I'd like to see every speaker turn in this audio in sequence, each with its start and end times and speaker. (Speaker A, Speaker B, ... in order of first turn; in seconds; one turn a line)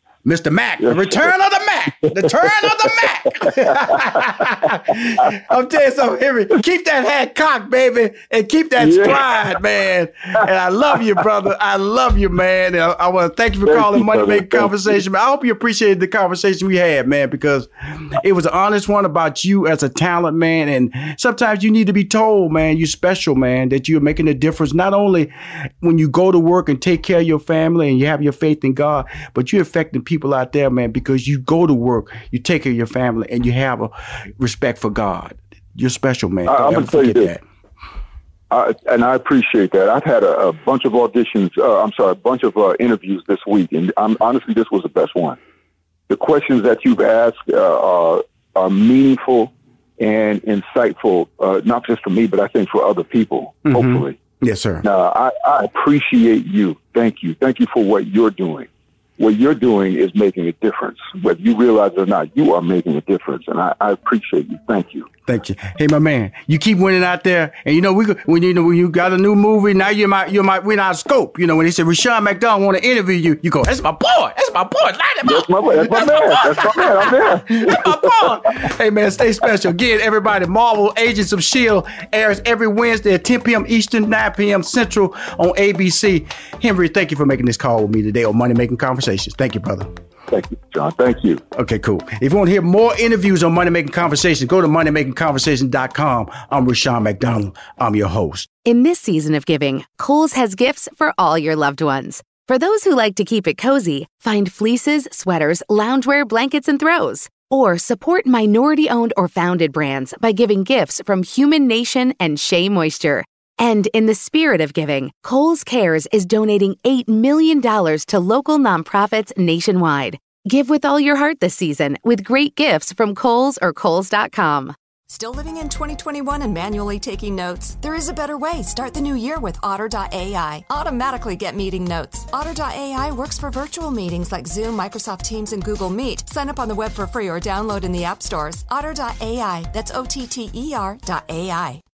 Speaker A: 0.2-37.4
Speaker B: 0.8-1.3
Speaker B: 2.0-4.2
Speaker B: 8.8-9.2
Speaker B: 13.7-14.7
Speaker B: 36.5-37.3
Speaker B: 38.5-45.4
Speaker B: 46.1-54.2
Speaker A: 53.7-54.8
Speaker B: 54.8-65.1
Speaker A: 65.3-89.9
Speaker B: 75.2-78.3
Speaker B: 90.3-91.4
Speaker A: 91.5-98.5
Speaker C: 98.6-124.7
Speaker D: 125.1-141.8